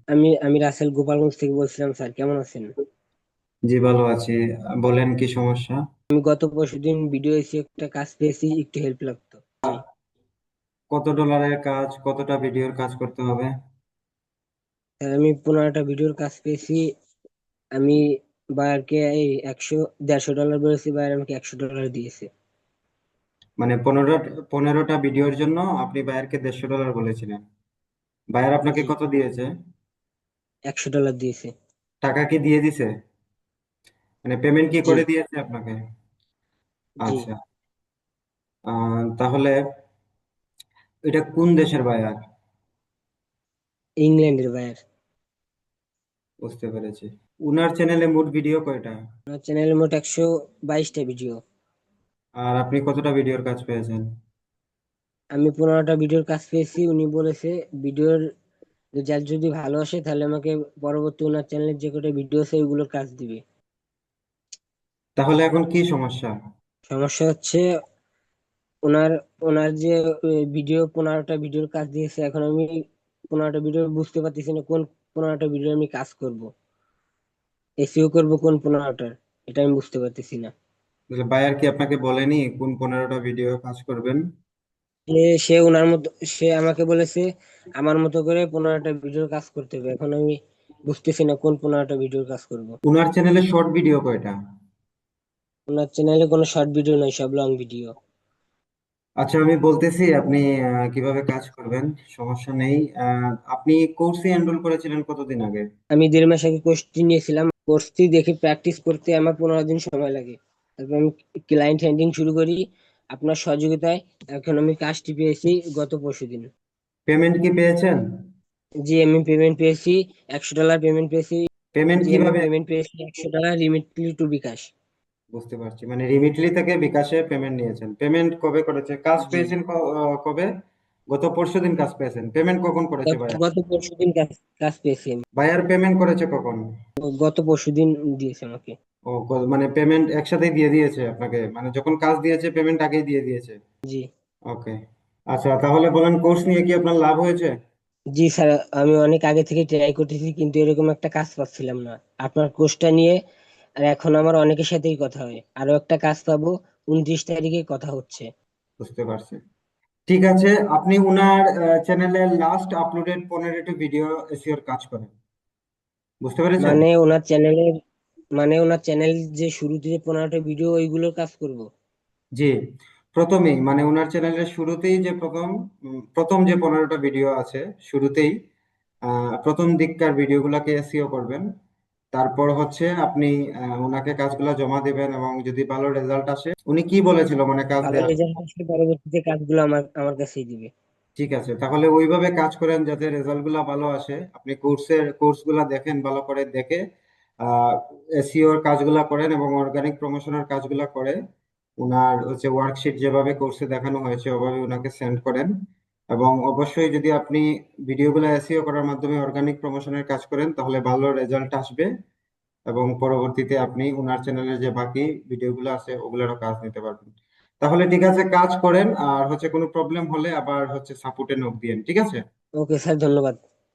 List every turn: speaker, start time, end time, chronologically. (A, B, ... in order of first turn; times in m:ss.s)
0:00.1-0:02.7 A
0:03.7-0:05.8 B
0:06.1-0:09.8 A
0:10.9-0:13.5 B
0:15.0-0:16.8 A
0:18.6-0:22.3 A
0:23.6-0:27.4 B
0:28.3-0:29.5 B
0:30.7-0:31.5 A
0:32.0-0:32.9 B
0:34.2-0:35.8 B
0:37.1-0:37.3 B
0:38.7-0:39.6 B
0:41.1-0:42.2 B
0:44.0-0:44.8 A
0:46.4-0:49.0 B
0:49.3-0:51.4 A
0:52.4-0:54.0 B
0:55.3-0:58.2 A
0:59.0-1:03.4 A
1:05.2-1:06.3 B
1:06.9-1:07.6 A
1:08.8-1:12.7 A
1:13.3-1:16.5 A
1:17.8-1:20.5 A
1:21.1-1:24.2 B
1:25.1-1:27.2 A
1:27.8-1:30.4 A
1:30.9-1:32.8 A
1:32.8-1:34.3 B
1:35.7-1:37.9 A
1:39.2-1:45.6 B
1:45.9-1:52.6 A
1:53.1-1:56.5 A
1:57.1-1:58.0 B
1:58.8-2:01.4 A
2:01.7-2:02.5 B
2:02.0-2:04.7 A
2:05.3-2:10.5 B
2:09.2-2:09.5 A
2:11.1-2:13.4 B
2:13.1-2:15.2 A
2:15.4-2:16.6 B
2:17.0-2:18.8 A
2:19.1-2:23.6 B
2:24.5-2:24.7 B
2:25.3-2:27.5 B
2:28.2-2:33.2 A
2:33.8-2:38.3 A
2:38.8-2:39.4 B
2:40.1-2:45.1 B
2:46.2-2:46.8 B
2:46.6-2:47.7 A
2:48.4-2:51.6 A
2:53.1-2:55.5 B
2:56.2-2:58.3 B
2:59.4-3:01.4 B
3:02.1-3:08.1 B
3:07.8-3:10.7 A
3:11.2-3:16.8 B
3:17.5-3:21.2 B
3:21.8-3:25.5 B
3:26.1-3:31.9 B
3:32.7-3:37.1 B
3:37.6-3:42.2 B
3:42.6-3:43.4 A